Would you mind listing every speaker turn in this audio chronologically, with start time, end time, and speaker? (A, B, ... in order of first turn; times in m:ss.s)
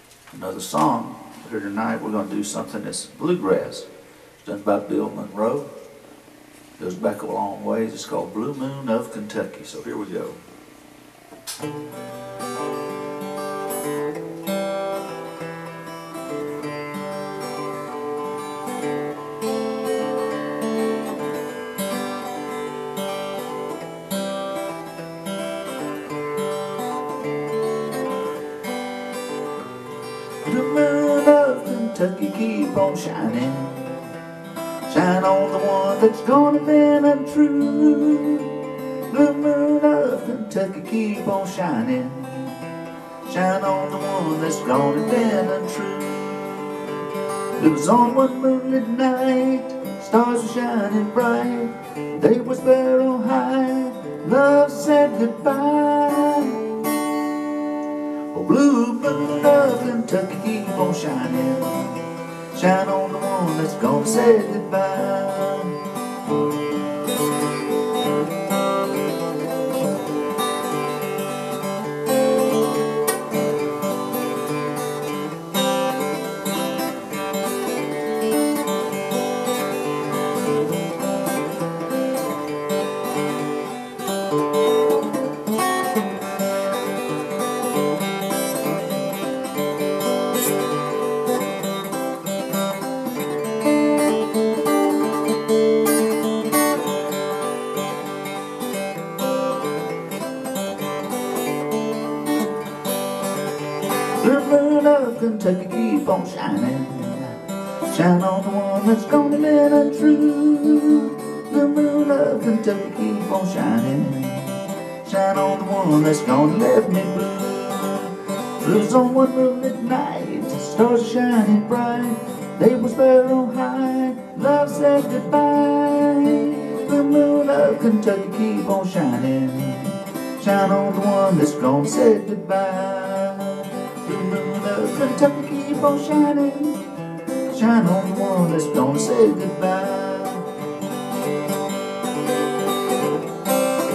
0:00.3-0:03.9 A
0:04.4-0:05.7 A
0:06.8-0:10.4 A
0:30.4-0:34.0 A
0:34.8-0:42.7 A
0:43.2-0:46.9 A
0:47.6-0:56.7 A
0:58.3-1:05.8 A
1:44.2-2:16.9 A
2:17.5-2:20.5 A